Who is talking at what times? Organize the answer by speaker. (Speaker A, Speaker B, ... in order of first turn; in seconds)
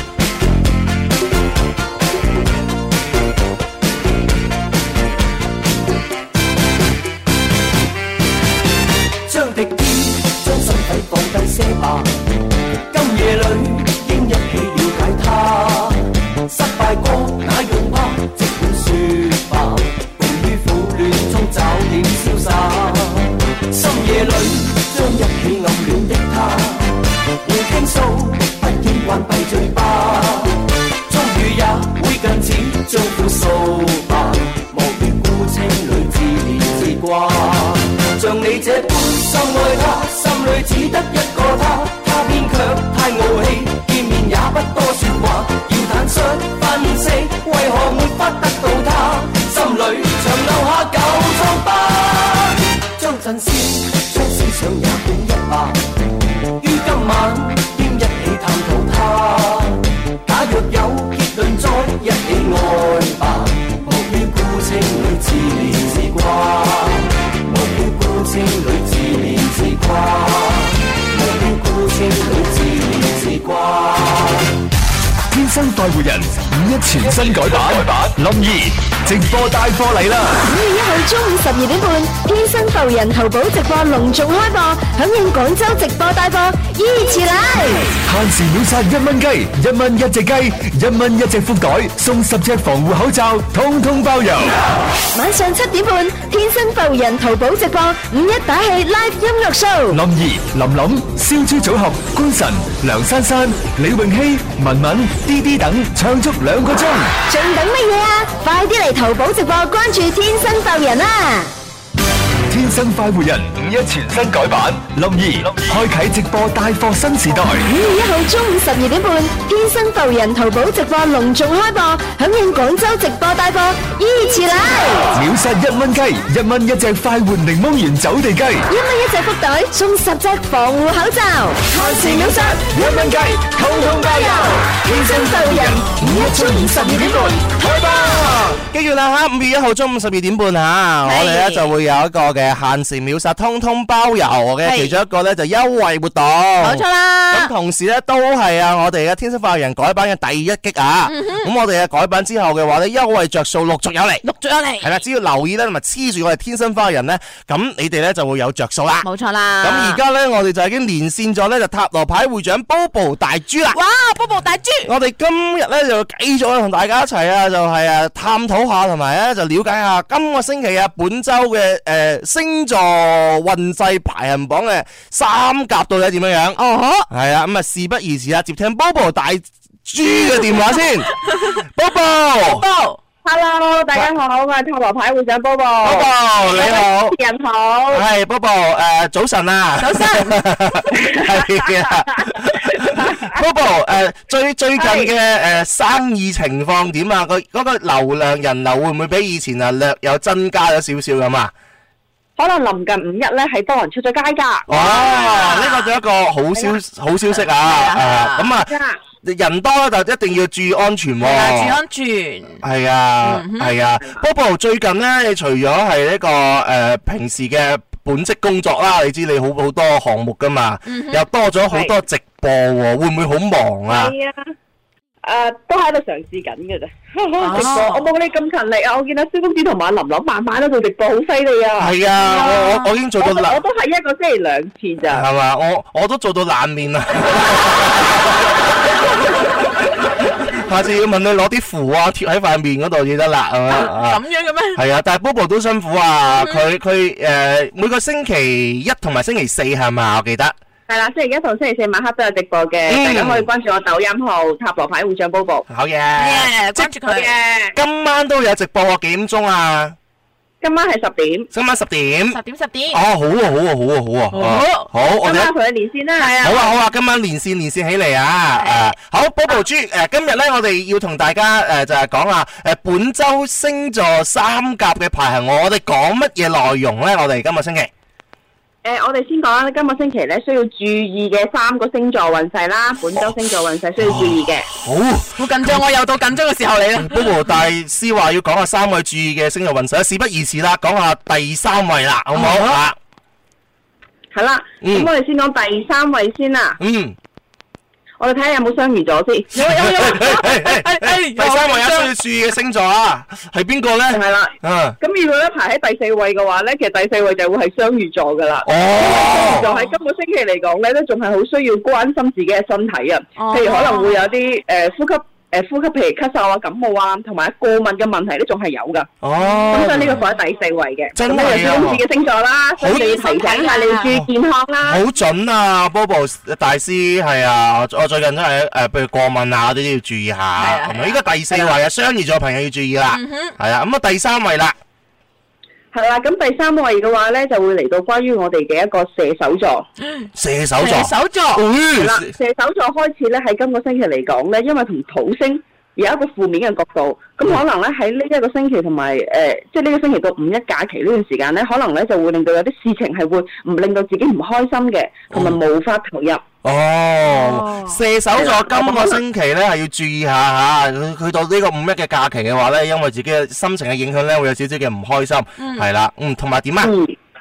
Speaker A: 9.3-12.1, 12.9-55.8, 56.6-74.4
Speaker B: 75.3-80.4, 88.0-94.6, 99.9-107.1, 112.5-117.7, 125.1-128.7, 131.7-138.5
Speaker C: 80.4-88.0, 95.1-100.0, 107.3-111.5, 117.6-125.1, 128.7-138.3
Speaker D: 138.3-154.2, 154.8-159.1, 159.6-163.8, 164.8-182.7, 185.8-187.2, 187.9-201.5, 204.7-208.7, 209.2-211.8, 212.6-224.1, 231.8-233.6, 235.1-238.5, 240.4-244.2, 244.7-250.6, 252.9-253.5, 255.7-256.9, 257.8-260.0, 261.5-262.4, 262.9-265.5, 266.4-277.9, 284.0-285.8, 287.0-293.0, 294.8-295.1, 296.8-297.2, 299.6-305.0, 308.6-309.7, 319.2-320.2, 321.1-322.0, 322.8-323.0, 324.9-334.8, 340.4-342.3, 355.3-355.6, 356.6-366.9
Speaker E: 141.1-141.7, 144.6-145.0, 146.6-147.5, 151.1-151.5, 154.2-154.9, 159.0-160.0, 163.7-164.9, 176.6-177.1, 181.2-181.6, 182.5-183.0, 189.8-190.5, 204.7-205.9, 207.5-208.5, 211.2-212.6, 213.2-213.8, 220.9-221.2, 227.4-228.1, 232.2-232.9, 243.7-244.8, 246.4-246.7, 256.2-257.3, 262.3-263.0, 264.3-264.9, 266.2-266.7, 268.6-268.9, 285.4-287.4, 292.4-292.8, 299.6-302.1, 309.3-309.9, 313.4-314.2, 319.4-320.1, 322.8-324.1, 330.6-331.2, 333.1-333.6, 340.0-341.6, 357.3-358.0, 365.6-365.9
Speaker F: 183.2-188.0, 191.1-192.3, 192.8-193.4, 194.8-195.1, 202.4-204.7, 208.7-209.0, 223.9-224.5, 225.2-231.9, 233.2-235.2, 250.9-255.7, 257.1-257.8, 260.6-261.5, 265.2-266.4, 278.8-284.7, 294.3-296.8, 298.2-299.9, 304.1-319.1, 319.7-325.0, 335.9-339.9, 342.0-356.4, 358.4-359.2, 366.8-367.2